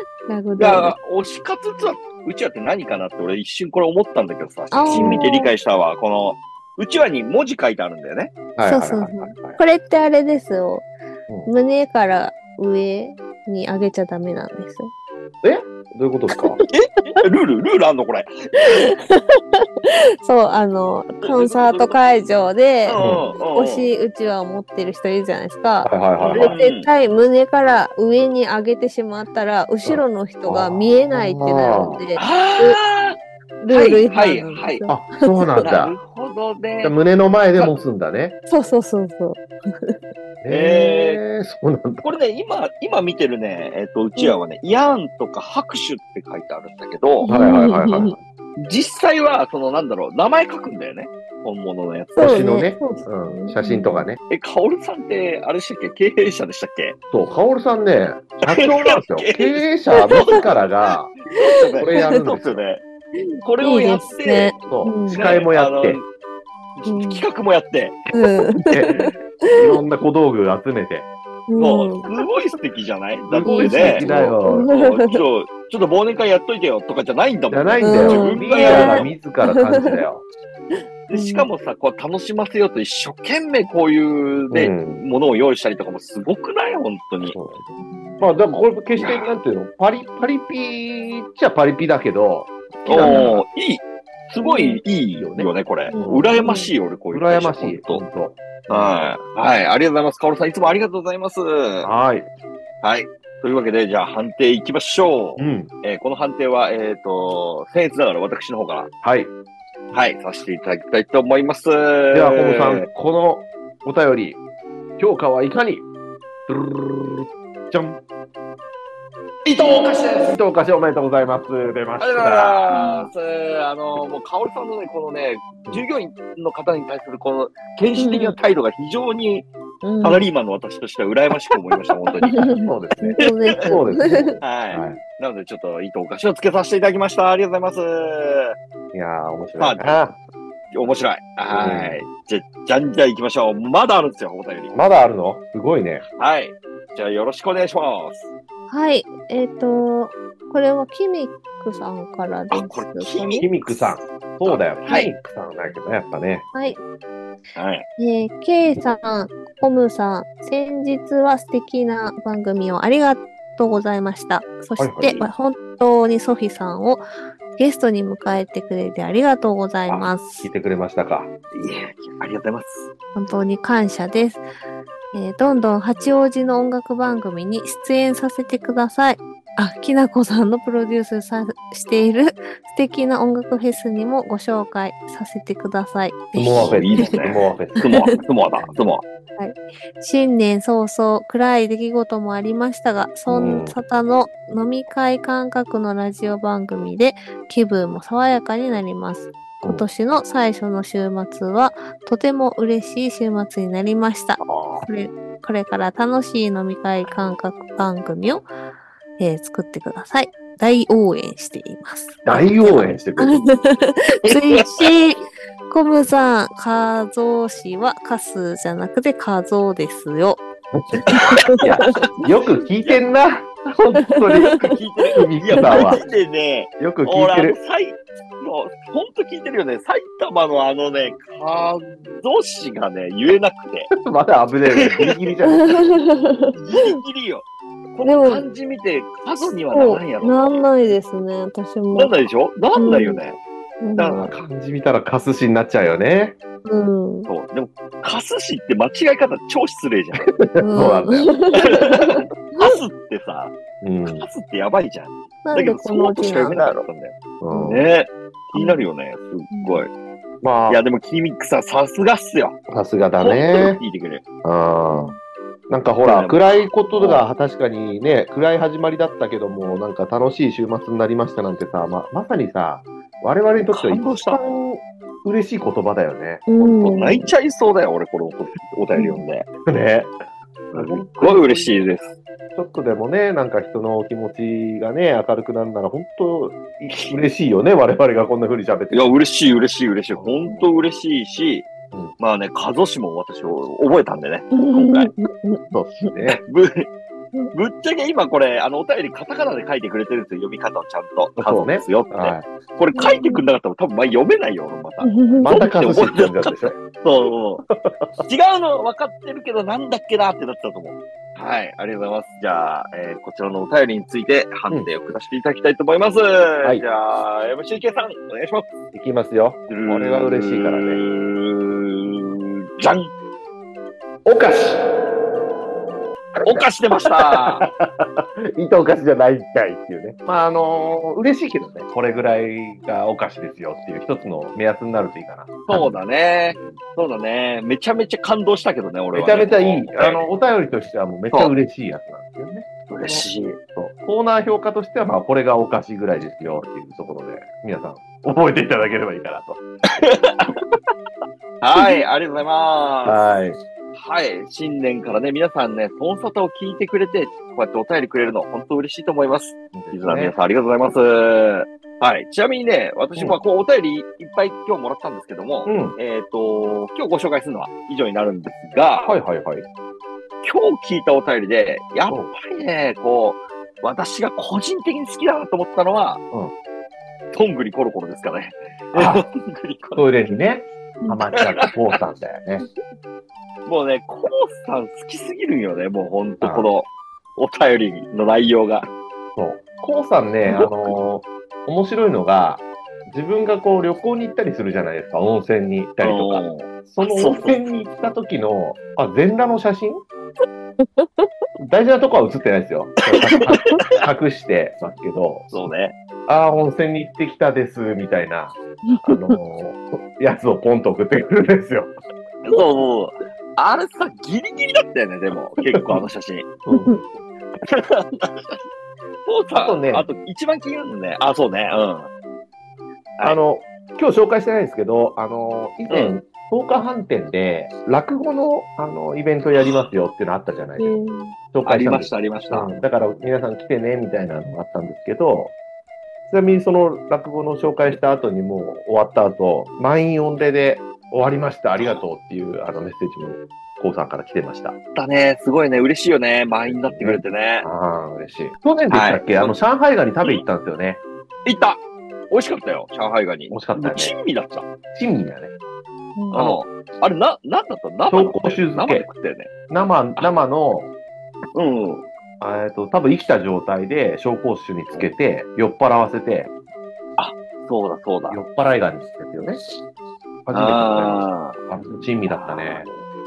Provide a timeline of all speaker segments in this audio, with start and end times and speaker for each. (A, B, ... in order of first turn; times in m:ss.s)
0:00.3-0:00.9 A
0:00.6-0:08.3 B
0:04.7-0:05.5 A
0:04.9-0:05.2 C
0:08.6-0:09.6 C
0:08.6-0:10.9 A
0:11.4-0:14.9 A
0:15.4-0:16.6 C
0:16.7-0:18.9 B
0:18.6-0:19.6 A
0:20.2-0:32.8 A
0:21.2-0:22.0 B
0:22.8-0:23.9 B
0:23.0-0:23.2 C
0:25.8-0:26.6 C
0:26.2-0:26.9 B
0:29.8-0:32.0 C
0:32.2-0:33.2 B
0:33.6-0:35.4 A
0:33.7-0:34.8 B
0:34.8-0:35.9 C
0:35.6-0:37.0 B
0:36.8-0:38.4 C
0:38.5-0:40.0 A
0:40.4-0:42.0 C
0:40.5-0:41.2 B
0:42.0-0:47.3 B
0:47.2-0:48.2 A
0:47.3-0:48.2 C
0:48.6-0:52.4 B
0:52.2-0:54.1 A
0:52.2-0:54.2 C
0:54.3-0:57.0 B
0:57.1-1:01.1 C
0:58.5-1:00.5 B
1:01.3-1:02.8 B
1:01.8-1:02.7 C
1:03.4-1:04.6 B
1:03.6-1:05.2 A
1:04.6-1:06.0 C
1:05.1-1:06.1 B
1:06.8-1:08.0 B
1:06.8-1:07.2 A
1:08.1-1:09.5 A
1:08.6-1:11.1 C
1:11.5-1:12.0 A
1:11.6-1:19.1 B
1:13.3-1:14.7 C
1:13.4-1:15.2 A
1:17.5-1:20.2 C
1:17.8-1:20.0 A
1:21.1-1:27.3 B
1:21.1-1:21.5 A
1:24.5-1:25.0 C
1:27.2-1:33.4 C
1:27.8-1:28.2 A
1:29.0-1:29.3 B
1:32.8-1:38.0 B
1:32.9-1:33.3 A
1:34.4-1:34.8 A
1:35.2-1:36.4 C
1:35.9-1:36.7 A
1:37.1-1:39.2 C
1:38.7-1:41.9 B
1:41.8-1:42.3 C
1:42.8-1:48.9 B
1:45.4-1:45.7 C
1:49.0-1:49.3 C
1:49.9-1:52.8 B
1:52.1-1:54.4 C
1:55.0-1:55.8 C
1:56.5-1:58.0 C
1:59.4-2:00.4 B
2:00.3-2:02.7 C
2:02.0-2:09.5 B
2:02.7-2:03.1 A
2:08.0-2:08.4 A
2:09.8-2:10.3 A
2:10.0-2:12.5 B
2:12.2-2:14.4 A
2:12.2-2:15.0 C
2:14.4-2:18.5 B
2:18.9-2:20.2 C
2:19.6-2:20.0 B
2:20.7-2:24.7 B
2:21.5-2:22.0 C
2:24.7-2:26.0 C
2:26.2-2:28.3 B
2:28.7-2:33.5 A
2:32.5-2:35.1 B
2:33.4-2:36.5 C
2:36.5-2:36.8 A
2:37.5-2:37.8 B
2:38.0-2:47.0 A
2:44.8-2:45.1 C
2:45.0-2:45.3 B
2:47.6-2:50.5 A
2:50.4-2:51.3 C
2:51.5-2:52.9 B
2:53.1-2:54.4 A
2:55.1-3:07.3 A
3:06.3-3:07.9 C
3:06.5-3:09.0 B
3:09.4-3:28.5 A
3:13.3-3:13.8 C
3:24.5-3:24.8 C
3:29.2-3:40.4 A
3:32.2-3:33.5 C
3:34.2-3:34.9 B
3:41.1-3:41.9 A
3:41.5-3:43.0 B
3:41.5-3:46.0 C
3:44.6-3:53.9 B
3:45.5-3:46.0 A
3:46.8-3:47.6 C
3:53.9-3:55.9 C
3:55.5-3:56.5 A
3:56.6-4:00.9 B
3:58.0-3:58.4 A
3:59.7-4:03.2 A
4:01.9-4:03.4 B
4:03.8-4:04.3 A
4:04.0-4:04.3 B
4:04.2-4:06.4 C
4:06.6-4:07.3 A
4:07.2-4:10.3 B
4:10.3-4:11.3 C
4:10.6-4:12.7 A
4:11.5-4:13.5 B
4:13.8-4:14.2 C
4:14.0-4:19.9 B
4:15.4-4:16.6 A
4:17.4-4:17.8 C
4:18.5-4:18.8 A
4:19.5-4:19.8 A
4:20.4-4:20.8 C
4:20.7-4:22.6 B
4:22.7-4:23.8 C
4:23.2-4:24.2 B
4:24.4-4:25.1 C
4:24.9-4:25.2 A
4:25.7-4:36.4 C
4:26.0-4:27.2 B
4:33.6-4:34.4 B
4:36.5-4:37.3 A
4:36.6-4:39.5 B
4:38.9-4:39.2 A
4:39.7-4:40.2 C
4:40.7-4:42.2 B
4:40.7-4:41.8 C
4:42.5-4:49.1 C
4:46.8-4:47.2 B
4:48.9-4:55.1 B
4:50.2-4:50.7 C
4:54.5-4:56.1 A
4:55.7-4:56.4 C
4:56.4-4:56.9 B
4:57.5-5:07.6 B
5:01.4-5:02.5 C
5:02.9-5:03.4 A
5:05.0-5:05.7 A
5:05.4-5:06.8 C
5:07.7-5:08.2 C
5:08.2-5:18.7 B
5:18.9-5:21.0 C
5:19.7-5:23.1 B
5:24.2-5:24.8 C
5:26.4-5:27.6 B
5:27.3-5:35.9 C
5:35.7-5:40.2 B
5:39.1-5:49.6 C
5:42.9-5:43.6 B
5:50.0-5:50.5 B
5:51.6-5:53.3 B
5:53.0-5:53.6 C
5:54.0-6:09.2 B
5:59.7-6:00.3 C
6:05.6-6:05.9 C
6:09.0-6:09.6 C
6:10.4-6:16.2 B
6:17.3-6:20.1 B
6:18.9-6:19.2 C
6:20.0-6:22.6 C
6:23.6-6:28.8 B
6:26.4-6:26.7 C
6:29.4-6:40.0 C
6:30.5-6:30.9 B
6:36.0-6:37.8 B
6:40.8-6:41.2 A
6:41.6-6:45.6 C
6:43.4-6:43.9 B
6:43.5-6:43.8 A
6:45.5-6:46.0 B
6:46.3-6:51.9 C
6:48.9-6:49.4 A
6:52.4-6:56.5 B
6:56.6-6:57.1 C
6:56.7-6:57.0 A
6:57.7-6:58.6 B
6:59.2-7:02.1 B
6:59.6-7:00.0 C
7:03.2-7:11.0 C
7:09.6-7:09.9 B
7:10.8-7:11.3 A
7:11.5-7:15.5 C
7:11.6-7:12.7 B
7:16.3-7:24.8 C
7:21.8-7:22.0 B
7:24.9-7:27.7 B
7:26.6-7:31.0 C
7:28.9-7:29.6 B
7:31.4-7:31.8 B
7:32.3-7:34.7 B
7:33.5-7:34.1 C
7:34.9-7:35.5 C
7:36.2-7:36.5 A
7:36.3-7:39.5 B
7:38.1-7:39.1 C
7:39.7-7:40.9 C
7:41.5-7:42.0 B
7:42.4-7:46.5 C
7:47.2-7:48.4 B
7:48.3-7:49.6 C
7:50.4-7:52.8 C
7:50.5-7:51.6 B
7:52.2-7:53.0 B